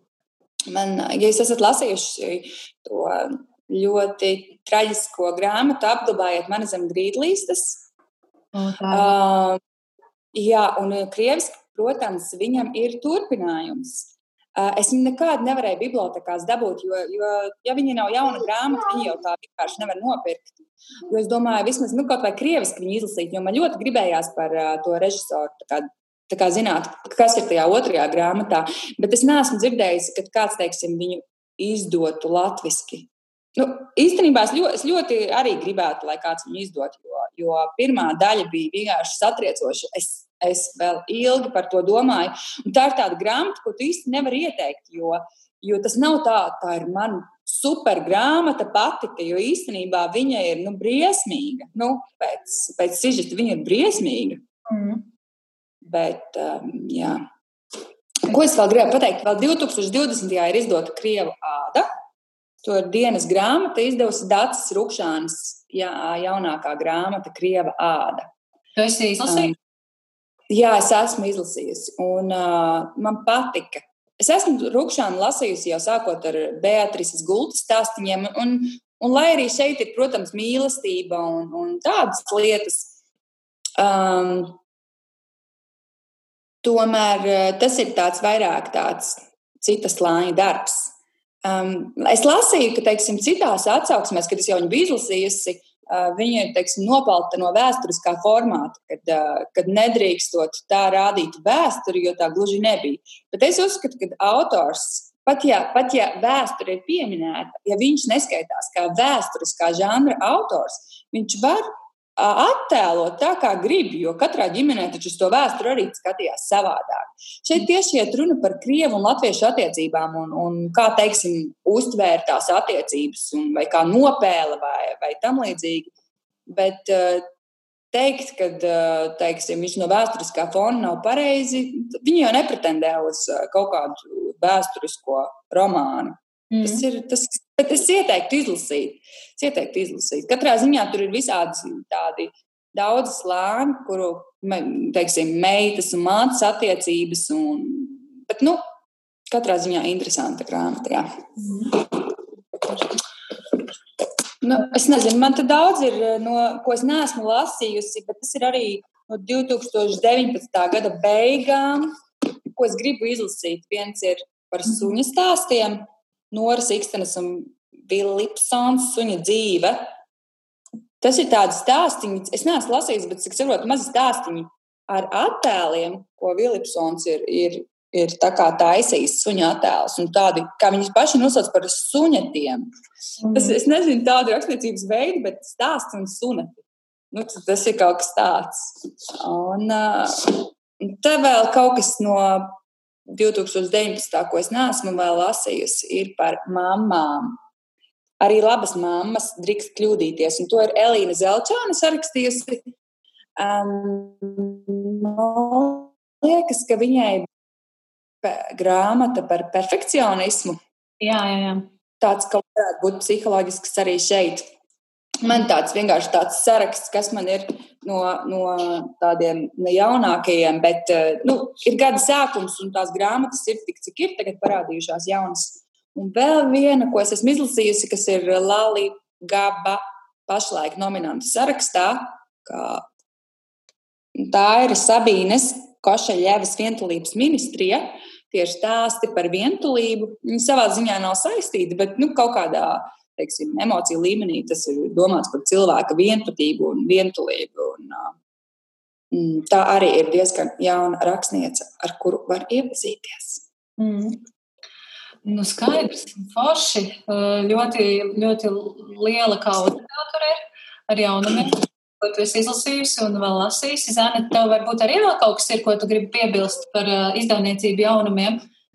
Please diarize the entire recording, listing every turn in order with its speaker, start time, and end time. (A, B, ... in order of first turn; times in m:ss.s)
0:00.7-0:07.8 A
0:08.5-0:09.1 B
0:08.9-0:09.6 A
0:10.3-0:20.5 A
0:21.1-0:54.4 A
0:54.7-0:55.0 B
0:55.8-0:57.2 A
0:58.3-1:01.9 A
1:02.6-1:08.3 A
1:08.8-1:09.5 B
1:09.2-1:09.5 A
1:10.5-1:23.0 A
1:23.8-1:24.6 A
1:26.6-1:30.9 A
1:31.4-2:05.9 A
2:06.5-2:07.2 A
2:07.9-2:28.6 A
2:16.5-2:16.8 B
2:29.3-2:31.1 A
2:31.4-2:31.7 B
2:34.4-2:41.9 A
2:42.6-2:49.9 A
2:51.0-3:02.7 A
3:03.2-3:03.6 B
3:03.3-3:12.6 A
3:13.1-3:17.4 A
3:18.2-3:22.6 A
3:23.4-3:27.3 A
3:28.2-3:30.6 A
3:31.0-3:31.6 B
3:32.0-3:34.5 A
3:35.2-3:52.8 A
3:54.2-4:08.1 A
4:09.1-4:13.4 A
4:13.8-4:14.2 B
4:15.2-4:28.4 B